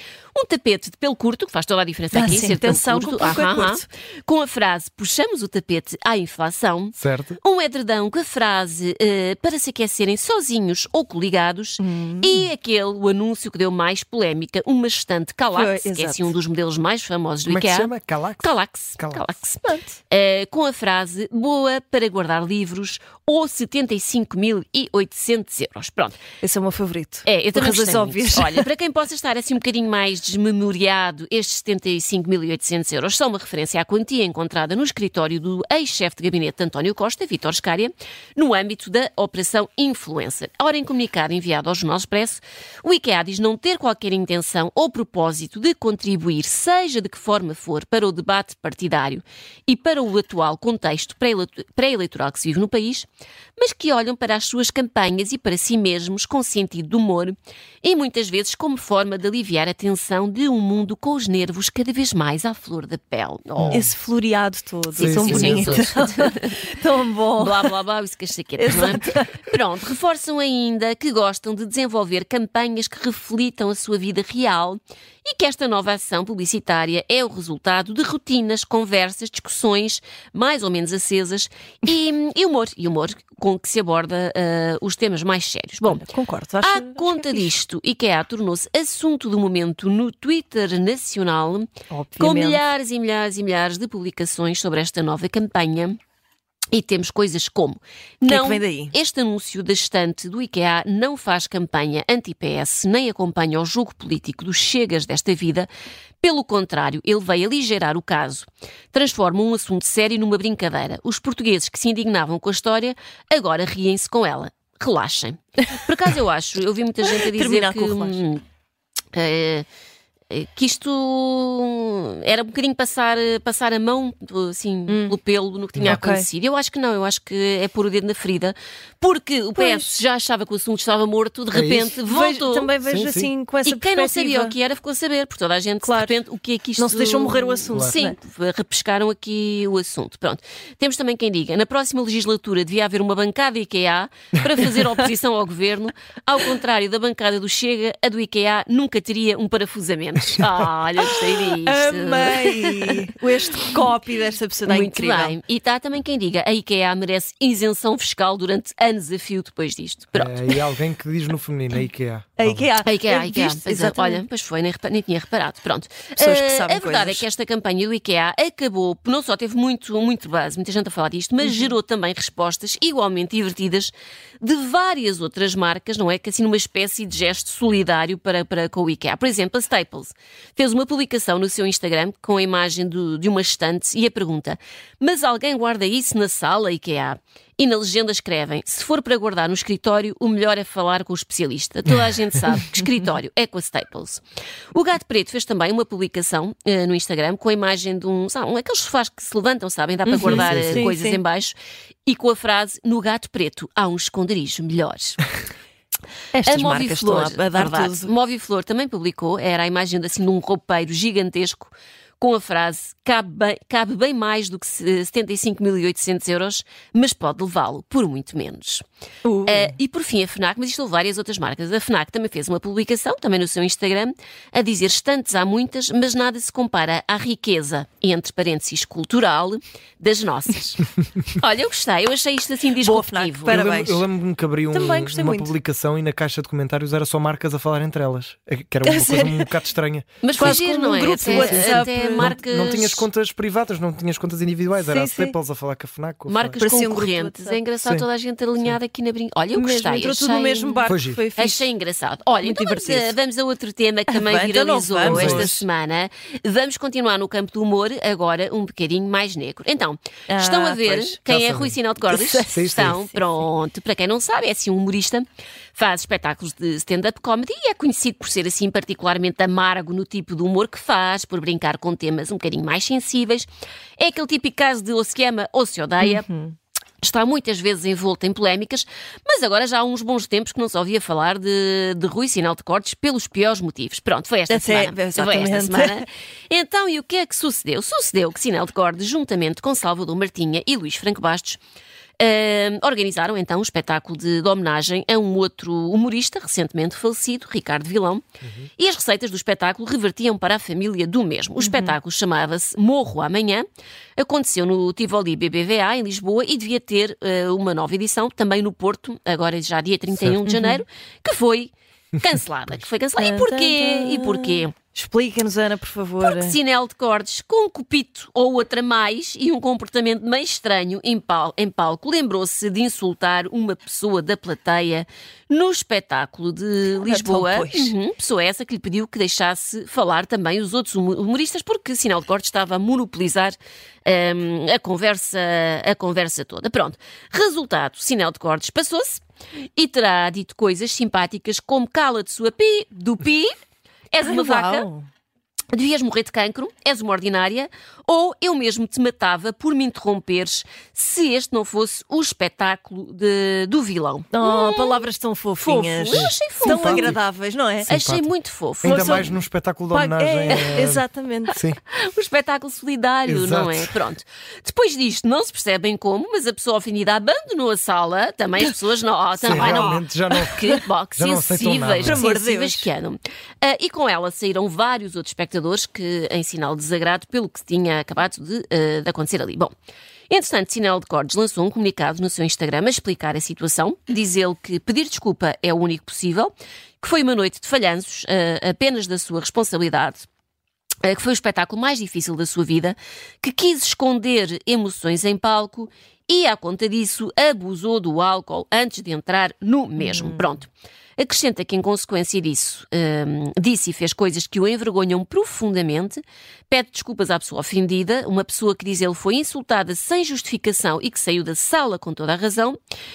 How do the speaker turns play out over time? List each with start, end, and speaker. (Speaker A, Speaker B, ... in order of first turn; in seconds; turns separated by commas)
Speaker A: 0.3-26.2, Speaker B: 2.1-3.8, Speaker C: 7.0-7.4, Speaker B: 11.8-12.5, Speaker B: 15.5-16.3, Speaker C: 17.5-19.2, Speaker B: 19.6-19.9, Speaker B: 26.4-28.7, Speaker A: 27.2-63.8, Speaker C: 63.6-63.9, Speaker B: 63.7-67.7, Speaker A: 64.9-66.6, Speaker C: 65.0-65.9, Speaker A: 67.4-86.1, Speaker B: 68.6-69.3, Speaker B: 85.9-87.5, Speaker A: 86.6-96.0, Speaker B: 91.9-92.6, Speaker A: 96.7-105.7, Speaker B: 98.2-98.9, Speaker A: 106.2-118.4, Speaker B: 117.1-118.2, Speaker A: 119.1-119.7, Speaker A: 120.3-132.7, Speaker B: 124.9-125.2, Speaker B: 125.8-126.3, Speaker B: 129.5-129.9, Speaker C: 131.5-131.9, Speaker B: 132.0-134.5, Speaker C: 132.8-133.3, Speaker A: 133.6-153.7, Speaker B: 135.8-136.2, Speaker B: 136.8-138.2, Speaker B: 151.0-155.4, Speaker A: 154.7-160.6, Speaker C: 160.1-162.6, Speaker B: 162.4-164.2, Speaker A: 162.8-194.2, Speaker B: 166.2-167.2, Speaker B: 171.4-171.7, Speaker A: 194.7-205.2, Speaker B: 200.1-201.2, Speaker C: 200.2-200.9, Speaker B: 206.3-208.1, Speaker A: 206.4-218.8, Speaker B: 219.2-219.8, Speaker A: 219.4-233.6, Speaker B: 232.8-234.1, Speaker C: 233.4-246.6, Speaker B: 234.7-235.5, Speaker B: 238.8-239.5, Speaker A: 240.2-243.1, Speaker B: 240.3-242.4, Speaker B: 244.8-245.3, Speaker A: 246.3-276.3, Speaker B: 246.6-247.6, Speaker B: 249.5-251.7, Speaker C: 250.8-251.2, Speaker B: 252.4-253.1, Speaker B: 254.1-255.6, Speaker C: 255.0-255.5, Speaker B: 260.3-261.2, Speaker C: 261.3-261.8, Speaker B: 262.1-263.0, Speaker C: 262.5-263.0, Speaker B: 276.0-276.5, Speaker A: 277.0-291.6, Speaker B: 284.5-286.0, Speaker A: 292.2-298.2, Speaker C: 298.4-298.7, Speaker A: 298.8-303.6, Speaker B: 301.6-301.9, Speaker A: 304.2-314.7, Speaker B: 310.4-310.8, Speaker B: 313.2-316.6, Speaker A: 316.2-339.2, Speaker B: 327.0-327.9, Speaker A: 339.8-343.5, Speaker A: 344.1-344.9, Speaker B: 344.2-345.1, Speaker A: 345.7-355.1, Speaker B: 354.3-357.9, Speaker A: 355.6-357.1, Speaker C: 356.1-357.2, Speaker C: 357.9-358.3, Speaker A: 357.9-359.2, Speaker C: 358.8-361.8, Speaker B: 358.8-359.4, Speaker B: 359.9-361.6, Speaker A: 360.5-360.8, Speaker A: 361.9-379.7, Speaker C: 363.2-363.9, Speaker C: 369.4-372.2, Speaker B: 369.5-370.0, Speaker B: 372.0-372.9, Speaker A: 380.3-390.3, Speaker A: 391.0-412.8, Speaker B: 400.0-400.5